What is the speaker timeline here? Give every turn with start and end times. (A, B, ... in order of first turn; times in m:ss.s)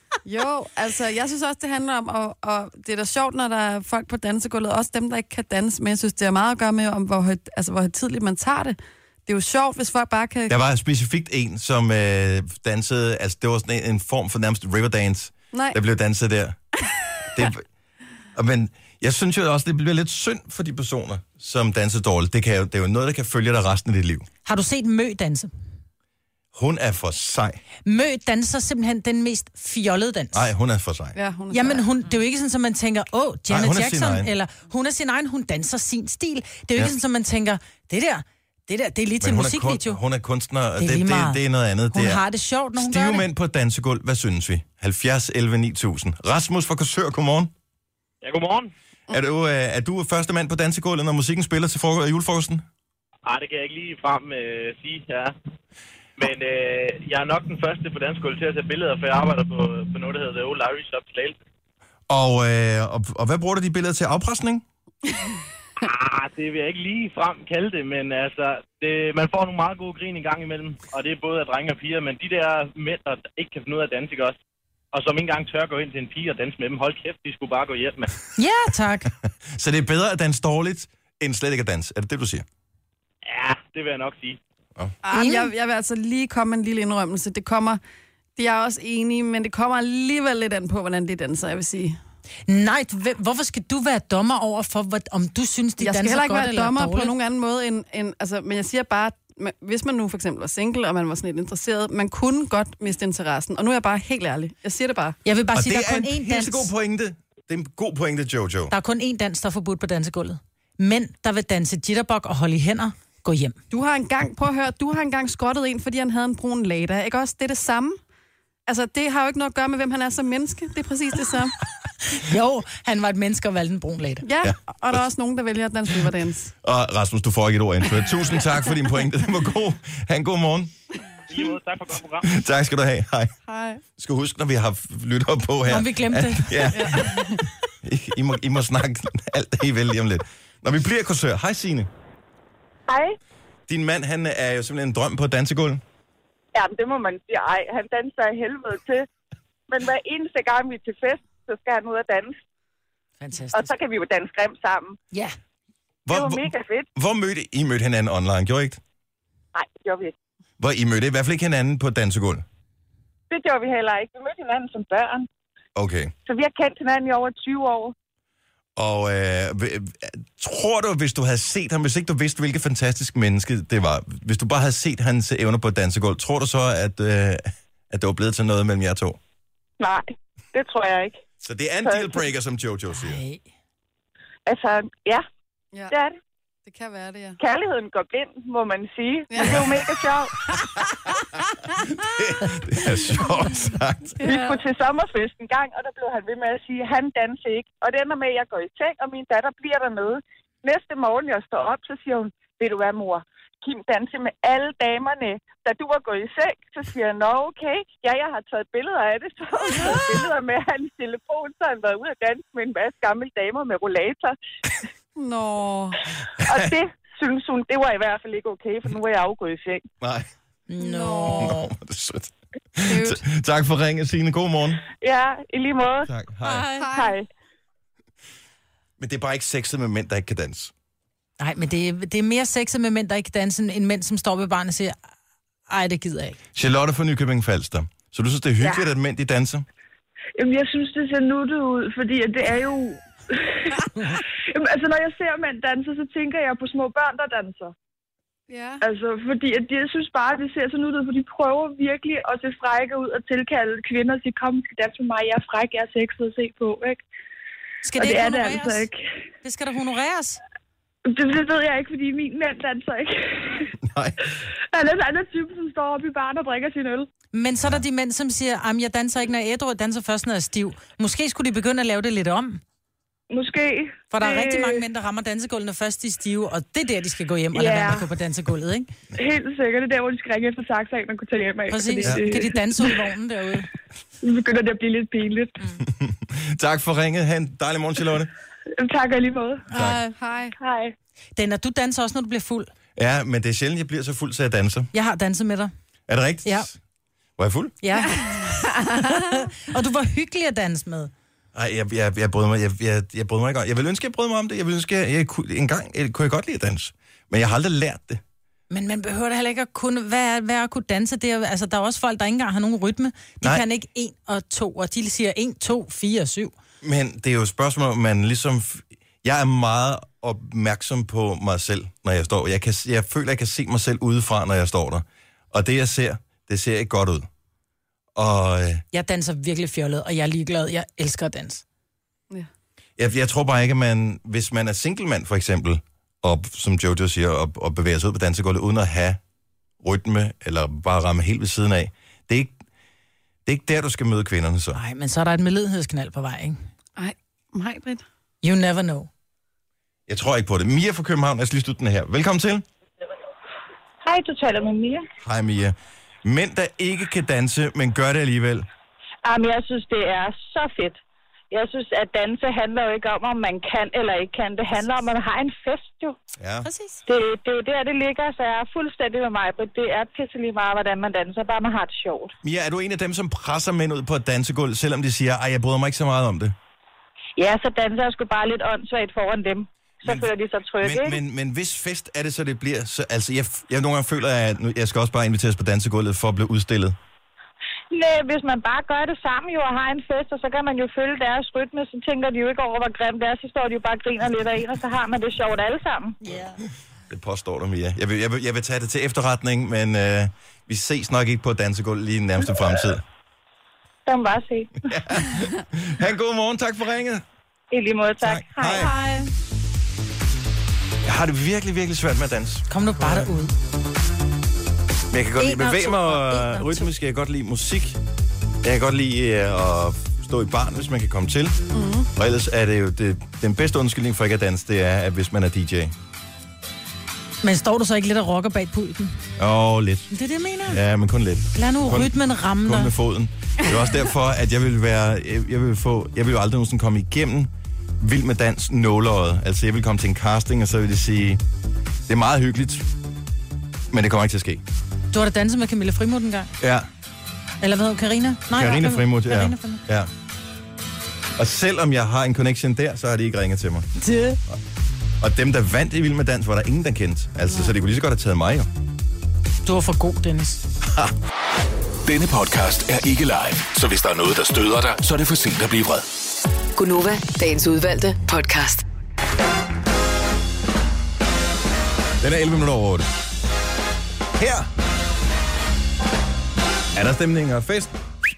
0:00.2-0:10.6 A
0:10.5-0:16.6 B
0:15.5-0:15.8 A
0:17.3-0:17.6 B
0:18.4-0:24.3 B
0:24.4-0:25.5 C
0:26.5-0:27.6 B
0:27.8-0:30.5 C
0:30.3-0:31.2 B
0:31.2-0:31.9 A
0:31.5-0:40.0 C
0:33.5-0:34.3 B
0:39.2-0:42.2 B
0:40.8-0:43.3 C
0:42.8-0:47.5 B
0:48.2-0:48.7 D
0:49.1-0:52.6 B
0:53.3-0:55.3 D
0:56.2-1:01.4 D
1:02.1-1:04.6 B
1:05.8-1:14.4 D
1:14.9-1:18.2 D
1:18.4-1:19.1 C
1:19.5-1:22.4 B
1:23.2-1:24.4 D
1:25.0-1:27.8 A
1:25.1-1:25.5 C
1:28.4-1:32.0 A
1:32.5-1:37.1 C
1:35.8-1:45.2 A
1:45.2-1:46.7 C
1:45.5-1:48.7 B
1:48.7-1:53.6 C
1:53.7-1:58.0 A
1:58.7-2:01.6 A
2:02.1-2:04.3 C
2:04.2-2:06.5 A
2:04.4-2:05.0 B
2:06.6-2:10.7 B
2:11.3-2:12.3 D
2:12.2-2:13.3 B
2:13.4-2:13.8 A
2:14.0-2:21.9 B
2:15.7-2:16.9 C
2:16.7-2:17.4 A
2:22.9-2:23.2 E
2:23.7-2:25.8 B
2:26.6-2:29.1 E
2:29.7-2:32.4 E
2:33.2-2:33.7 C
2:33.5-2:35.0 E
2:36.1-2:38.8 B
2:36.1-2:36.9 E
2:39.6-2:40.1 E
2:40.6-2:42.4 B
2:43.3-2:45.3 E
2:45.8-2:46.1 B
2:46.3-2:47.9 E
2:48.8-2:59.2 B
2:59.8-3:01.2 E
3:01.4-3:03.2 B
3:01.8-3:02.2 E
3:02.9-3:03.4 C
3:04.5-3:05.2 E
3:05.9-3:06.2 E
3:06.7-3:07.4 A
3:07.4-3:10.4 E
3:09.3-3:09.8 A
3:11.7-3:14.2 B
3:14.2-3:14.6 A
3:14.2-3:34.4 E
3:35.2-3:36.0 A
3:36.4-3:36.7 B
3:36.5-3:39.8 E
3:40.0-3:40.3 B
3:40.7-3:41.7 C
3:40.8-3:41.6 A
3:41.4-3:44.8 B
3:42.8-3:43.2 A
3:45.0-3:46.1 E
3:46.1-3:46.7 B
3:46.4-3:46.9 C
3:46.7-3:47.2 A
3:46.9-3:47.2 E
3:49.0-3:50.7 B
3:51.4-3:55.0 C
3:55.7-3:56.4 C
3:56.6-3:59.6 B
4:00.4-4:03.9 F
4:04.5-4:07.7 F
4:08.5-4:08.8 A
4:08.8-4:17.0 F
4:17.8-4:18.9 C
4:18.0-4:19.0 F
4:19.4-4:20.4 C
4:21.1-4:23.7 F
4:23.8-4:24.3 B
4:24.7-4:27.1 F
4:27.3-4:32.6 C
4:33.3-4:34.9 F
4:34.1-4:38.9 C
4:37.5-4:38.1 F
4:39.1-4:43.1 F
4:41.7-4:43.7 C
4:44.2-4:45.7 F
4:45.8-4:48.3 B
4:48.8-4:49.6 F
4:49.7-4:50.2 C
4:49.8-4:50.0 B
4:50.2-4:50.6 A
4:50.6-4:50.9 F
4:51.4-4:52.7 C
4:53.0-4:54.9 B
4:54.9-4:55.7 C
4:56.1-4:56.8 B
4:57.4-4:57.8 B
4:57.8-5:01.1 C
4:58.2-4:59.1 A
5:01.6-5:08.2 B
5:08.7-5:16.5 C
5:16.8-5:27.3 B
5:28.2-5:28.8 B
5:28.9-5:31.6 C
5:33.0-5:39.2 B
5:39.8-5:42.5 B
5:43.5-5:44.8 B
5:44.8-5:46.6 C
5:47.0-5:48.0 A
5:48.4-5:49.1 C
5:50.1-5:52.6 B
5:54.0-5:55.0 E
5:55.2-5:58.7 B
5:59.3-6:00.9 E
5:59.3-6:01.0 G
6:01.5-6:06.1 G
6:01.6-6:06.1 E
6:06.4-6:06.7 B
6:06.6-6:07.0 C
6:07.1-6:12.3 E
6:07.2-6:12.3 G
6:12.4-6:16.6 B
6:17.4-6:21.2 E
6:17.9-6:19.6 G
6:20.0-6:27.0 B
6:27.9-6:35.9 E
6:28.3-6:36.1 G
6:36.2-6:36.6 C
6:37.1-6:43.0 B
6:44.1-6:44.7 E
6:44.8-6:47.2 B
6:47.7-6:48.8 E
6:48.2-6:48.9 B
6:48.8-6:49.3 C
6:51.0-6:53.3 B
6:52.7-6:53.5 C
6:55.1-6:58.0 B
6:55.4-6:56.9 C
6:58.6-7:01.6 B
7:01.7-7:02.1 A
7:02.2-7:05.9 B
7:07.4-7:09.2 C
7:09.4-7:10.1 B
7:10.1-7:10.8 C
7:10.7-7:21.4 B
7:11.6-7:12.9 C
7:22.1-7:22.9 B
7:23.9-7:24.6 B
7:25.1-7:26.5 C
7:26.6-7:26.9 B
7:27.6-7:29.8 C
7:28.5-7:30.1 B
7:31.4-7:33.9 B
7:34.0-7:34.4 C
7:35.2-7:38.7 B
7:39.6-7:40.6 C
7:40.9-7:41.1 B
7:42.1-7:46.1 H
7:46.8-7:48.8 I
7:52.2-7:53.1 B
7:54.4-7:54.7 B
7:57.0-7:58.0 B